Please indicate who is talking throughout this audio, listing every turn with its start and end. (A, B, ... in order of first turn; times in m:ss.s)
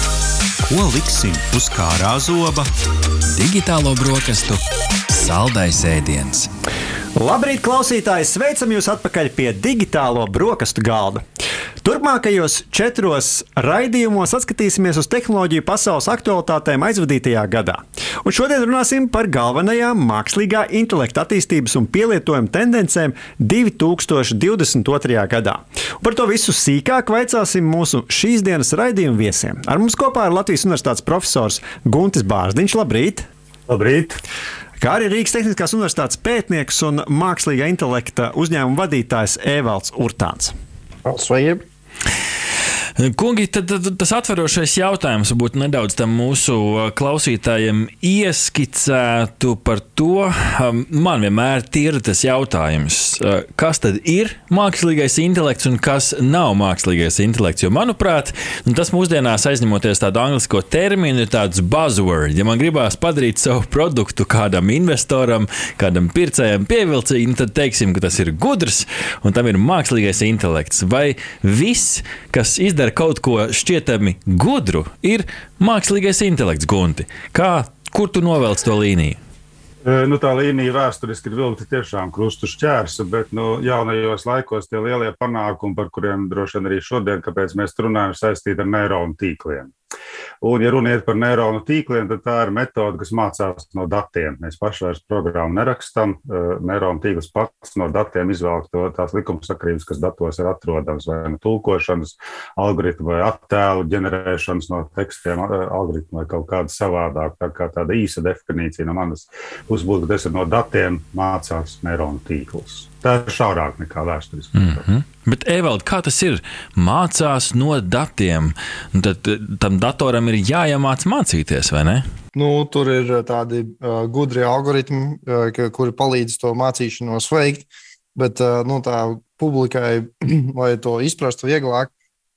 0:00.7-0:02.7 A
0:03.3-0:04.6 B
0:04.1-0:04.4 A
0:05.2-0:06.4 B
0:05.3-0:06.4 A
0:07.2-0:11.2 C
0:11.8-0:33.3 C
0:33.7-0:34.2 D
0:34.8-0:40.6 C
0:41.0-0:41.6 E
0:43.0-1:19.2 B
1:19.8-1:29.7 D
1:30.4-1:54.9 D
1:54.6-2:02.0 B
2:02.4-2:11.9 E